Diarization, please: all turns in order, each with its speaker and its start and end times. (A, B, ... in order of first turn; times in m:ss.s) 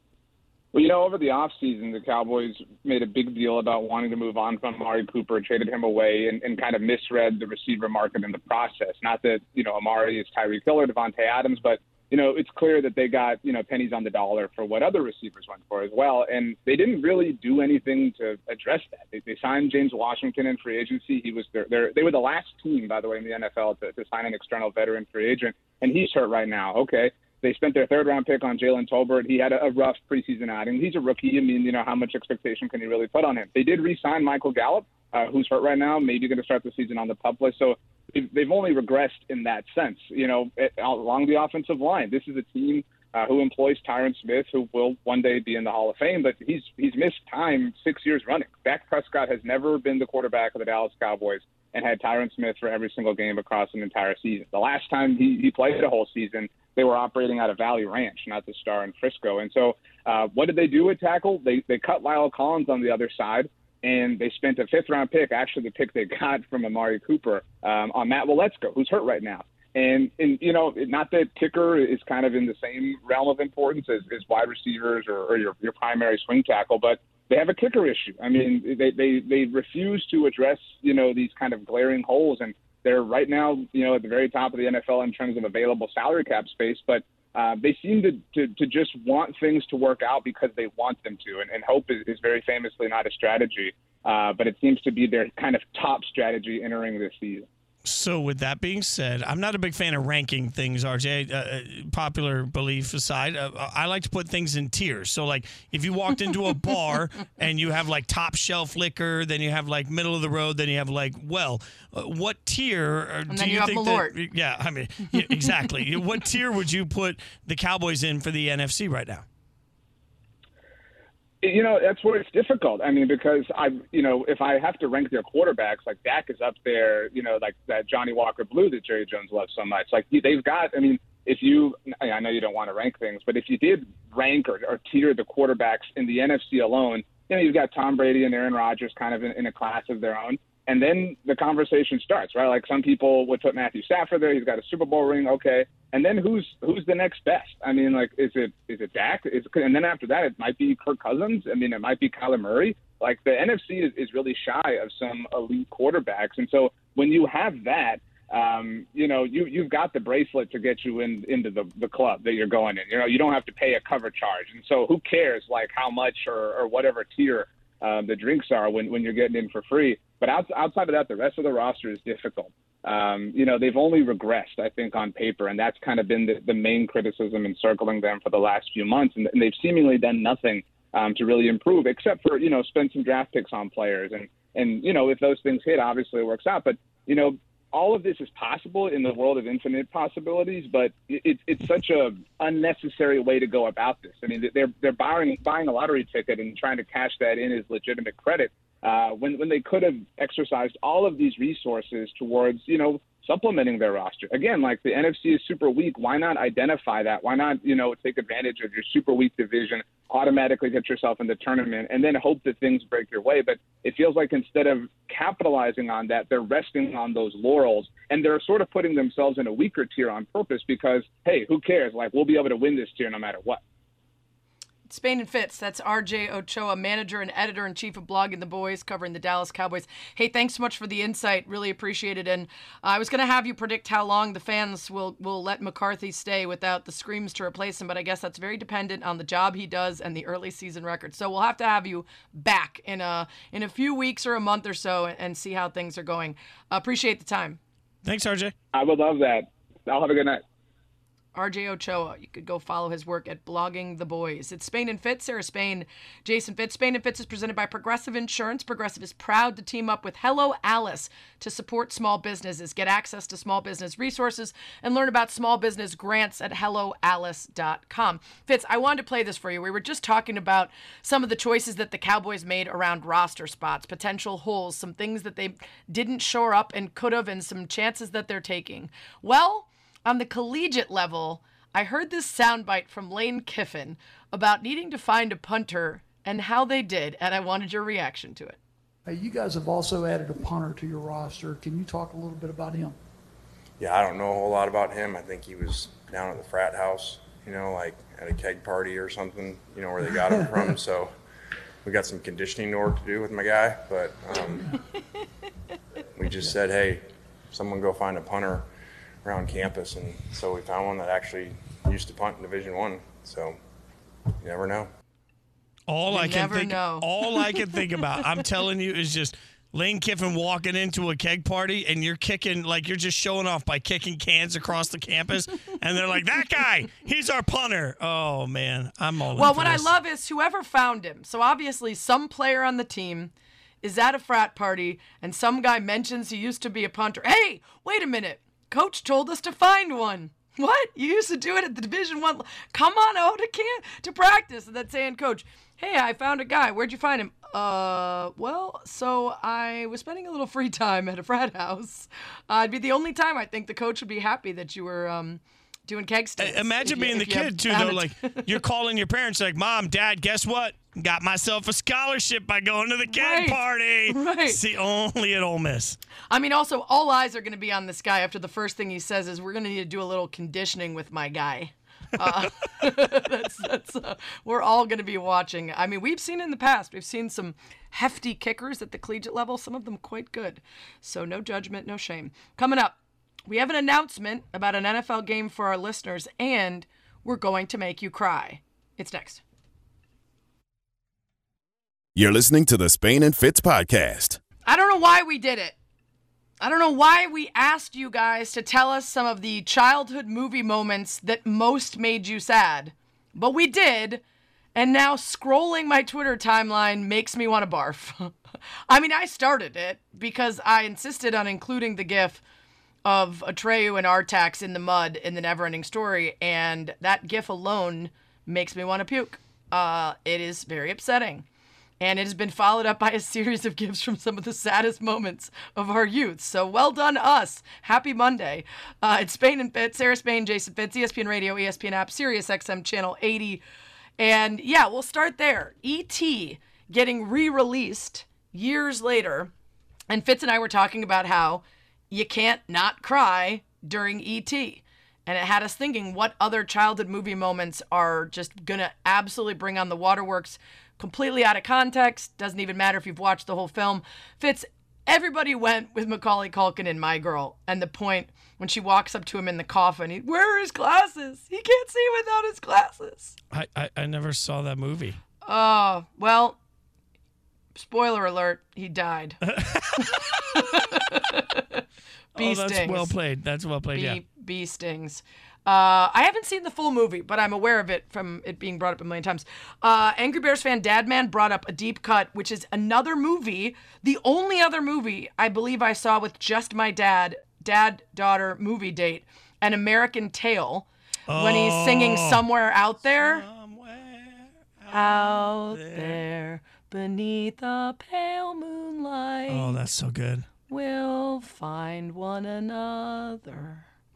0:00.7-1:37.5 A
1:37.8-1:59.2 B
1:53.3-1:54.2 C
1:55.1-1:55.5 C
2:01.4-3:43.6 A
3:44.9-4:07.6 C
4:08.0-4:08.5 B
4:08.7-4:10.4 A
4:11.3-4:48.6 C
4:49.1-4:53.0 D
4:53.8-5:01.1 E
5:00.0-5:00.8 D
5:01.8-5:04.7 E
5:06.2-5:08.7 E
5:09.2-5:13.6 E
5:14.4-5:14.9 E
5:15.9-5:29.9 B
5:16.1-5:17.1 C
5:29.4-5:58.6 C
5:56.4-6:06.0 B
6:03.1-6:04.6 C
6:06.3-6:29.4 C
6:12.2-6:12.5 B
6:32.1-6:34.4 F
6:34.6-6:35.8 C
6:36.6-6:44.2 C
6:44.7-6:48.3 C
6:48.9-6:52.4 C
6:53.0-7:01.4 C
7:02.0-7:13.6 C
7:14.2-7:19.5 C
7:20.1-7:43.4 C
7:43.5-7:45.2 B
7:45.4-7:46.6 C
7:47.7-7:49.4 C
7:49.4-7:51.2 B
7:50.0-7:51.8 C
7:52.4-7:53.1 C
7:52.4-7:54.2 B
7:53.9-8:13.4 C
8:11.3-8:12.4 B
8:13.2-8:16.2 B
8:14.9-8:19.8 C
8:19.5-8:20.5 B
8:20.7-8:23.8 C